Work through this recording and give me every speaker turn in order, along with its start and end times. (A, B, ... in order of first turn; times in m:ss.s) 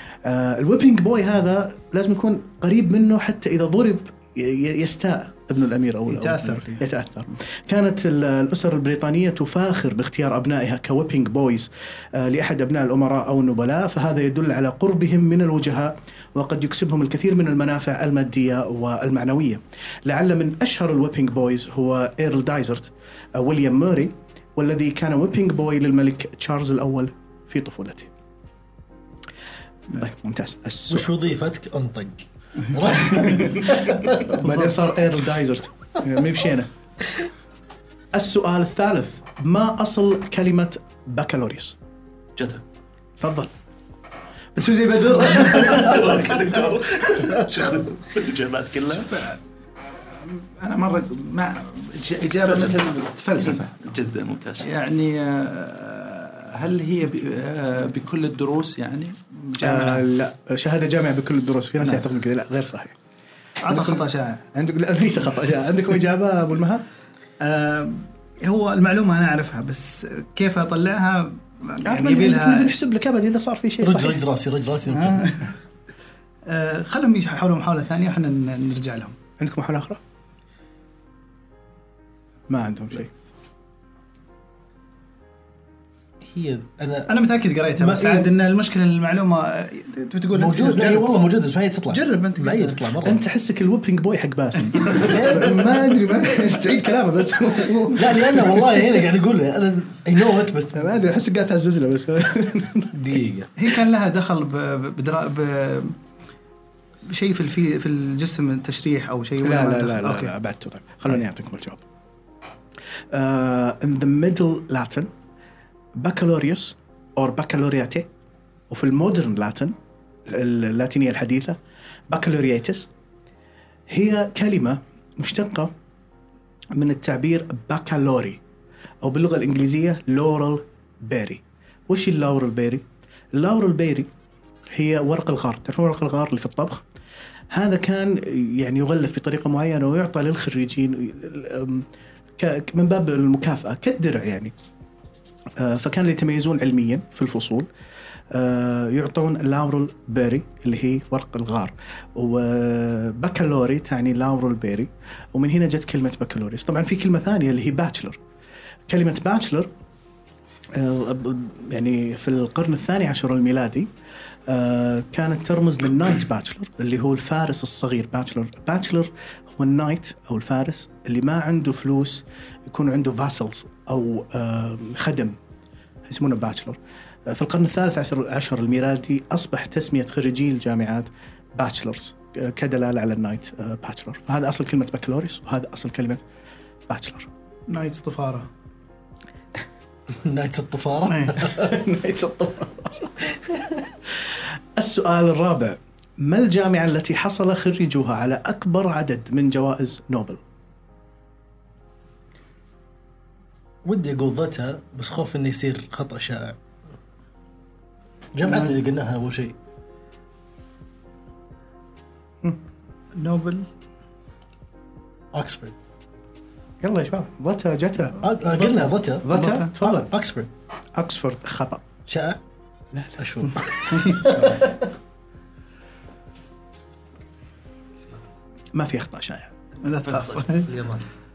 0:00.2-0:28.1 A
0:06.1-0:06.8 B
0:29.9-0:31.1 A
0:30.9-0:34.4 C
0:33.1-0:36.7 A
0:38.1-0:41.8 A
0:42.4-0:42.6 D
0:43.2-0:43.5 A
0:44.6-0:46.0 A
0:45.3-0:49.2 D
0:49.0-0:49.4 E
0:50.2-0:53.9 E
0:52.4-0:52.8 D
0:53.4-0:54.7 D
0:54.6-1:00.1 E
0:59.6-1:03.0 A
1:03.6-1:04.4 B
1:03.7-1:06.8 A
1:07.4-1:12.7 B
1:11.8-1:14.2 A
1:13.8-1:15.4 C
1:14.9-1:15.5 B
1:16.4-1:19.2 B
1:19.4-1:20.0 A
1:22.5-1:23.1 A
1:26.2-1:27.2 C
1:27.1-1:31.1 B
1:27.8-1:28.3 C
1:30.3-1:33.2 C
1:31.9-1:32.8 B
1:33.0-1:38.8 A
1:34.9-1:35.6 C
1:37.9-1:40.9 C
1:40.7-1:43.2 A
1:42.9-1:43.5 C
1:43.6-1:46.0 B
1:47.1-1:50.3 B
1:49.4-1:51.8 A
1:53.1-1:55.1 A
1:56.0-1:58.1 A
1:58.7-1:59.8 A
2:00.3-2:01.6 A
2:02.1-2:02.9 A
2:03.9-2:05.7 A
2:06.7-2:08.4 A
2:09.0-2:14.1 A
2:14.7-2:16.8 A
2:17.5-2:21.9 A
2:22.4-2:24.5 A
2:25.6-2:27.7 A
2:28.3-2:38.2 A
2:38.9-2:39.7 A
2:40.7-2:43.9 A
2:44.5-2:55.4 A
2:56.0-3:06.2 A
3:06.9-3:07.3 A
3:07.7-3:08.5 B
3:10.1-3:11.8 C
3:11.0-3:11.4 B
3:11.5-3:13.1 A
3:13.5-3:13.7 C
3:14.3-3:20.4 A
3:23.8-3:26.6 C
3:28.4-3:29.6 C
3:33.1-3:33.7 B
3:35.3-3:35.8 C
3:36.8-3:40.1 A
3:38.2-3:39.3 C
3:39.3-3:39.7 B
3:39.8-3:40.5 C
3:41.0-3:41.8 A
3:42.1-3:42.4 C
3:42.9-3:43.2 A
3:43.2-3:44.8 C
3:43.9-3:44.3 B
3:44.2-3:44.6 A
3:48.7-3:49.5 A
3:49.8-3:50.9 B